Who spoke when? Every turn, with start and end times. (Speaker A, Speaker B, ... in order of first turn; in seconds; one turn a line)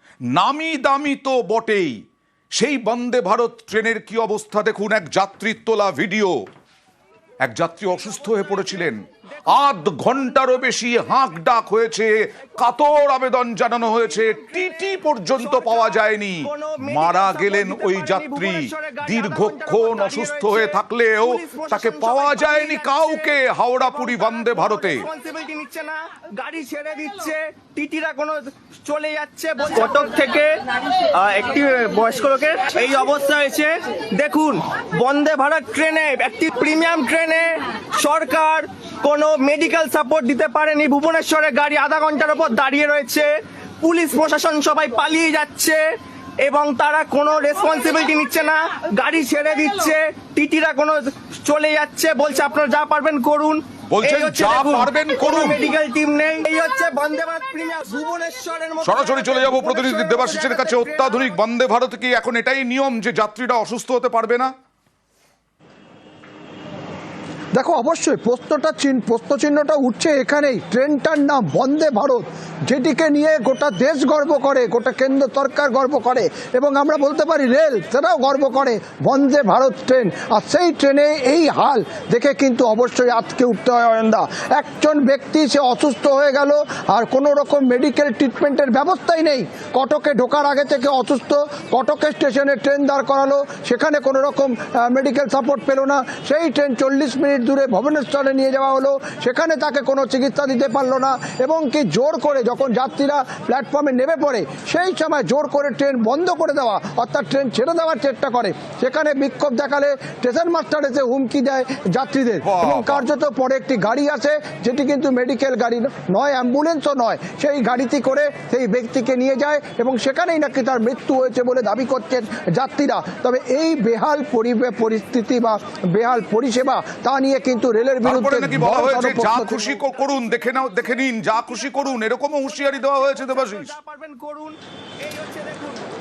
Speaker A: 0.3-2.0
Speaker A: 2.5-6.4
Speaker A: 7.4-25.1
Speaker B: 14.2-23.4
Speaker B: 23.9-45.8
Speaker B: 46.4-61.3
Speaker A: 53.9-55.6
Speaker A: 58.8-64.5
Speaker C: 67.5-129.7
Speaker A: 112.4-113.0
Speaker A: 128.0-133.7
Speaker B: 129.8-131.3
Speaker B: 132.7-135.9